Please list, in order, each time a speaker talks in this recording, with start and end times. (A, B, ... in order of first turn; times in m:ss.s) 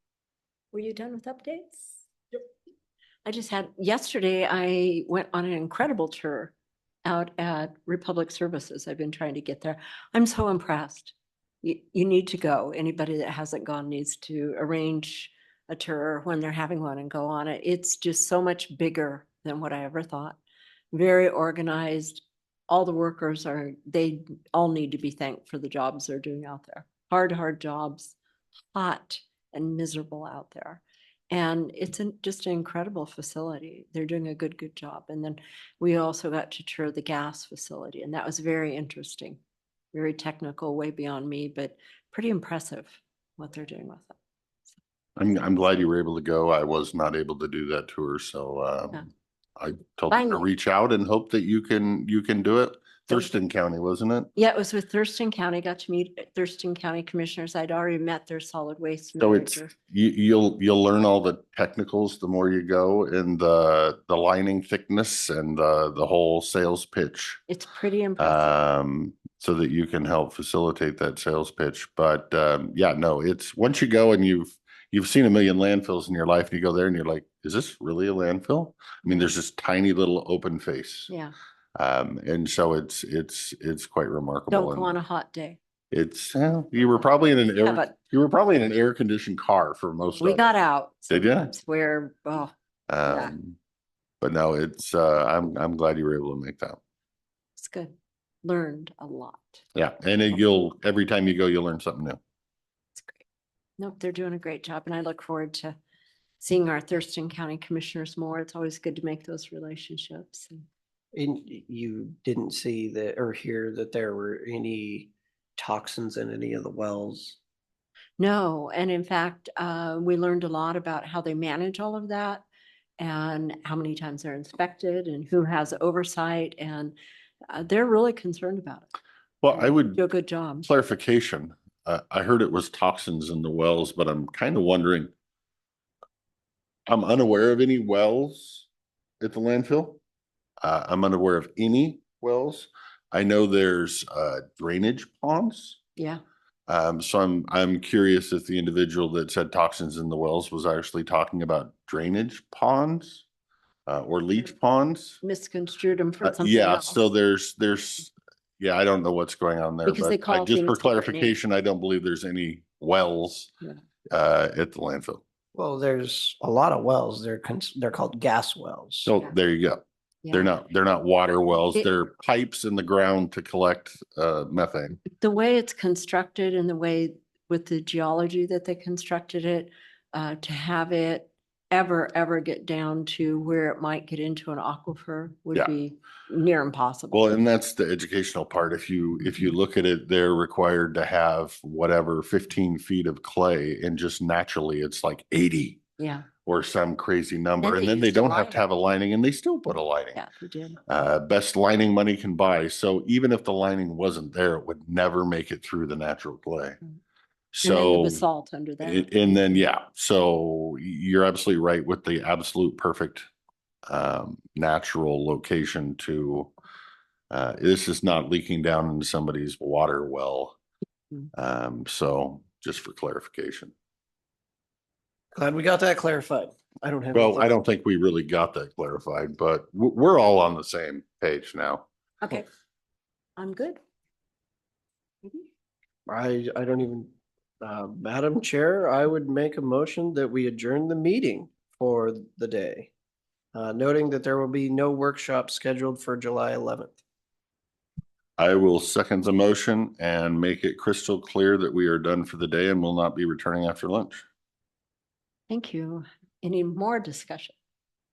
0:00.7-0:02.0 A
0:03.2-0:06.5 A
0:07.0-0:20.4 A
0:20.9-0:28.2 A
0:28.7-0:39.4 A
0:39.9-0:44.2 A
0:45.2-0:54.3 B
0:50.1-0:50.5 A
0:54.4-0:59.7 A
0:59.2-1:07.4 B
1:07.5-1:08.6 A
1:08.2-1:21.1 B
1:21.1-1:21.3 A
1:21.8-1:25.0 B
1:24.5-1:25.6 A
1:25.9-1:30.4 B
1:26.8-1:27.9 A
1:30.2-1:32.5 A
1:31.1-1:31.5 B
1:32.9-1:33.6 B
1:33.1-1:33.3 A
1:34.2-1:36.8 B
1:37.6-1:39.6 A
1:39.8-1:42.2 B
1:43.0-1:43.2 A
1:43.8-1:45.8 A
1:46.4-1:50.6 A
1:51.1-1:57.4 C
1:58.2-2:02.4 A
2:03.0-2:07.0 A
2:07.5-2:08.9 A
2:09.4-2:10.0 B
2:09.5-2:10.7 A
2:10.6-2:15.1 B
2:16.9-2:18.7 B
2:19.2-2:20.0 B
2:20.6-2:25.8 B
2:26.7-2:33.2 B
2:33.9-2:35.2 B
2:35.2-2:37.1 A
2:36.2-2:43.5 B
2:39.8-2:41.4 A
2:44.1-2:45.2 B
2:45.6-2:49.1 C
2:49.0-2:55.0 B
2:50.2-2:50.5 A
2:55.2-3:07.4 A
3:07.1-3:15.8 B
3:16.0-3:16.3 A
3:16.4-3:20.2 B
3:17.6-3:18.6 A
3:20.2-3:20.8 A
3:20.9-3:26.8 B
3:27.5-3:28.2 B
3:27.6-3:29.6 A
3:28.8-3:33.3 B
3:33.9-3:36.5 B
3:37.3-3:40.6 B
3:41.4-3:43.7 B
3:45.3-3:47.5 C
3:47.1-3:51.9 B
3:52.2-3:52.5 A
3:53.4-3:53.8 A
3:56.1-3:57.1 C
3:57.6-4:02.9 C
4:03.5-4:07.0 C
4:08.4-4:14.2 B
4:15.5-4:17.6 A